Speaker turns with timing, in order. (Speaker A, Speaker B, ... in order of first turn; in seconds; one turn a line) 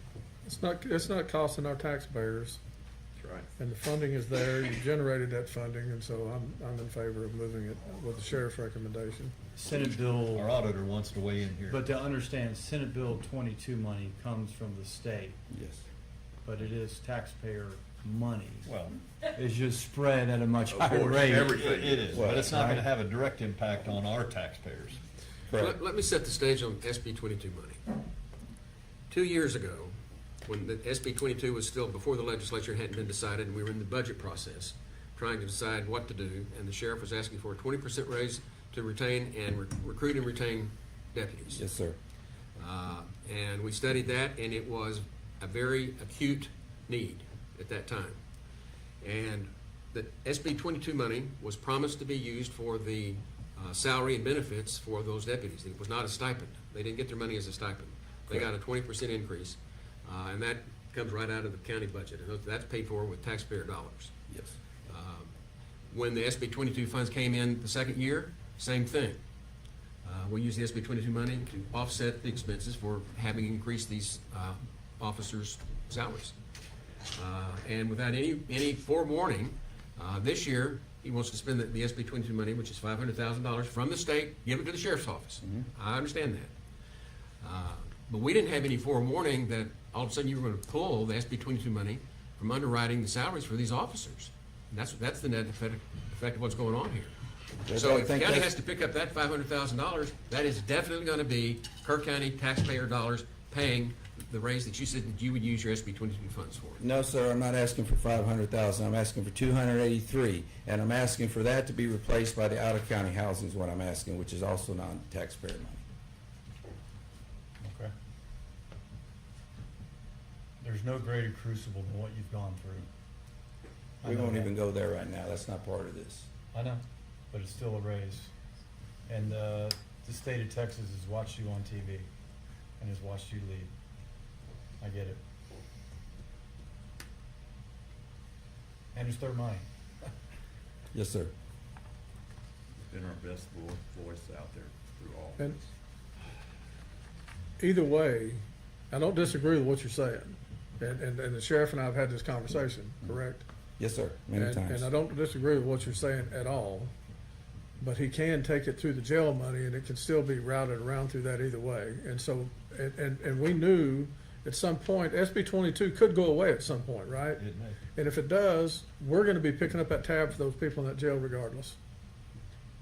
Speaker A: 0.5-2.6
Speaker B: 3.2-3.5
Speaker A: 3.6-9.3
Speaker C: 9.6-10.5
Speaker D: 9.8-11.8
Speaker C: 11.7-15.4
Speaker E: 15.5-15.8
Speaker C: 16.4-18.7
Speaker D: 18.7-19.0
Speaker C: 19.3-21.6
Speaker B: 20.7-22.4
Speaker D: 21.5-25.0
Speaker E: 22.1-22.5
Speaker C: 22.5-22.9
Speaker E: 25.5-25.8
Speaker F: 25.6-27.8
Speaker F: 29.1-29.9
Speaker F: 30.4-41.6
Speaker E: 41.5-42.0
Speaker F: 42.6-48.2
Speaker F: 49.0-64.1
Speaker E: 64.3-64.6
Speaker F: 64.9-65.3
Speaker F: 65.9-69.2
Speaker F: 70.0-76.4
Speaker F: 77.1-86.5
Speaker F: 87.4-97.2
Speaker E: 97.7-98.5
Speaker F: 97.7-106.8
Speaker E: 106.8-115.8
Speaker C: 117.6-117.9
Speaker C: 120.6-122.9
Speaker C: 124.0-124.5
Speaker E: 124.0-126.3
Speaker C: 126.5-128.3
Speaker C: 129.1-132.1
Speaker C: 132.8-133.7
Speaker C: 134.8-135.2
Speaker C: 138.9-139.6
Speaker E: 140.9-141.3
Speaker B: 142.9-145.6
Speaker A: 147.6-153.4
Speaker E: 153.8-154.9
Speaker A: 154.3-156.9
Speaker A: 157.8-167.4
Speaker D: 167.4-167.8
Speaker A: 167.9-171.8